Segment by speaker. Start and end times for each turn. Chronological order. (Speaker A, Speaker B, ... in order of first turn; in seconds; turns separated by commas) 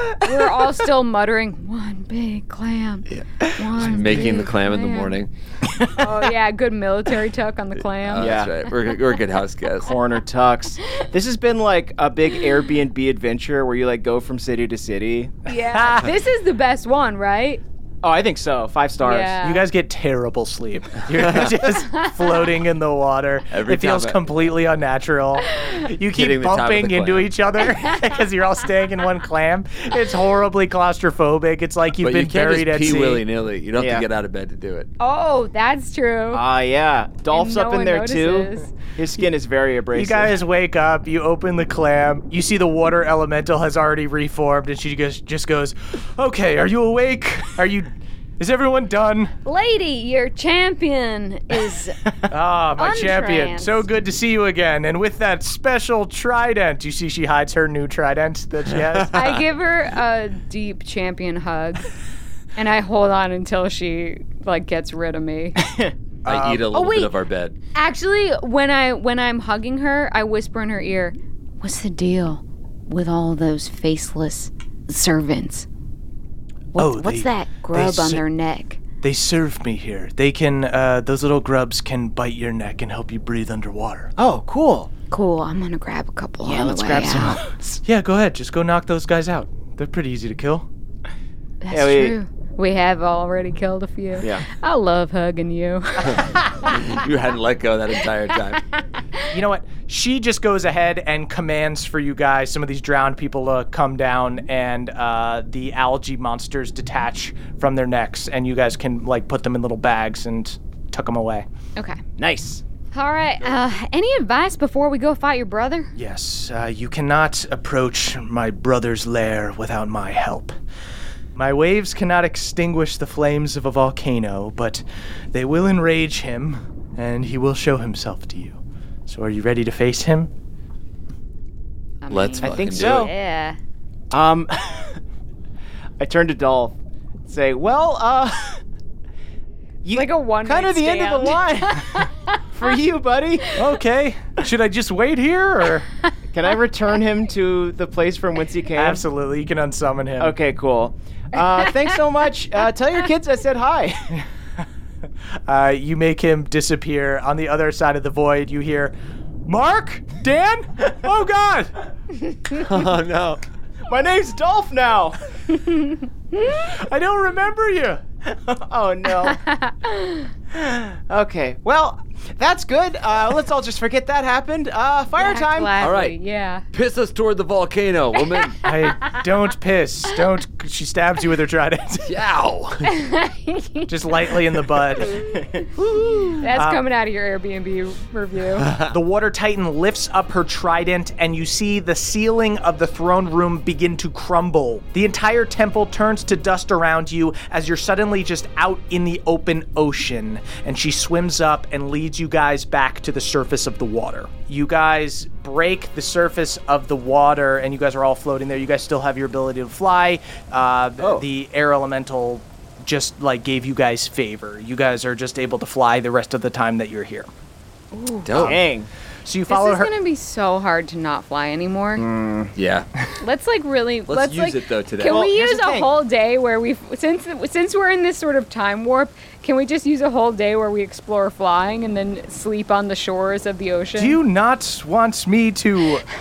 Speaker A: 0.2-5.2, Speaker B: 3.1-5.3, Speaker A: 5.9-8.4, Speaker B: 8.0-9.9, Speaker C: 8.2-8.5, Speaker C: 9.8-15.3, Speaker A: 15.4-17.6, Speaker D: 15.7-16.1, Speaker C: 18.0-19.4, Speaker A: 19.0-19.6, Speaker D: 19.4-33.2, Speaker B: 21.1-21.5, Speaker A: 21.9-22.2, Speaker B: 23.5-24.3, Speaker A: 25.5-25.8, Speaker B: 26.1-27.3, Speaker B: 31.9-34.9, Speaker C: 33.8-34.0, Speaker A: 35.0-36.4, Speaker C: 36.3-40.4, Speaker A: 37.3-38.7, Speaker D: 39.9-49.3, Speaker A: 49.4-52.0, Speaker D: 52.3-59.2, Speaker A: 52.8-53.8, Speaker B: 58.8-59.3, Speaker A: 59.1-61.9, Speaker A: 62.5-65.6, Speaker C: 65.6-65.9, Speaker D: 66.2-66.7, Speaker B: 66.2-67.5, Speaker A: 66.7-67.1, Speaker A: 67.7-75.7, Speaker A: 76.7-78.8, Speaker D: 76.8-78.2, Speaker D: 79.0-84.1, Speaker C: 84.2-84.9, Speaker A: 85.1-87.4, Speaker C: 86.4-87.8, Speaker D: 87.8-90.7, Speaker A: 91.6-96.8, Speaker C: 91.7-92.2, Speaker C: 94.2-94.5, Speaker B: 96.1-98.6, Speaker D: 99.3-111.5, Speaker A: 111.8-112.0, Speaker C: 112.2-112.6, Speaker A: 112.9-115.9, Speaker D: 115.9-120.5, Speaker D: 121.3-130.3, Speaker A: 132.0-133.6, Speaker B: 132.1-133.1, Speaker C: 132.4-133.1, Speaker C: 134.1-135.0, Speaker C: 136.0-136.7, Speaker C: 137.3-138.6, Speaker C: 139.8-143.6, Speaker A: 139.9-142.7, Speaker D: 143.5-145.9, Speaker C: 146.3-149.0, Speaker D: 148.7-150.3, Speaker C: 150.2-154.2, Speaker D: 155.5-158.9, Speaker D: 159.4-161.7, Speaker B: 162.5-163.4, Speaker C: 163.9-165.2, Speaker A: 165.5-166.0, Speaker D: 166.5-168.0, Speaker C: 168.3-169.4, Speaker A: 169.2-170.3, Speaker C: 170.5-175.8, Speaker A: 175.2-176.6, Speaker B: 175.8-176.2, Speaker B: 176.7-178.6, Speaker A: 178.3-178.7, Speaker D: 178.6-182.1, Speaker B: 182.1-182.9, Speaker A: 182.8-183.9, Speaker D: 183.9-185.2, Speaker A: 185.0-185.6, Speaker C: 185.1-185.8, Speaker A: 186.2-188.7, Speaker D: 186.5-186.8, Speaker B: 188.6-188.9, Speaker D: 188.9-217.3, Speaker C: 211.0-211.3, Speaker A: 217.9-218.3, Speaker B: 218.2-218.6, Speaker C: 218.4-218.9, Speaker D: 219.2-219.9, Speaker A: 219.5-222.1, Speaker C: 222.0-222.5, Speaker B: 222.6-222.8, Speaker A: 223.2-234.2, Speaker B: 224.1-225.2, Speaker C: 225.0-225.9, Speaker D: 234.0-236.0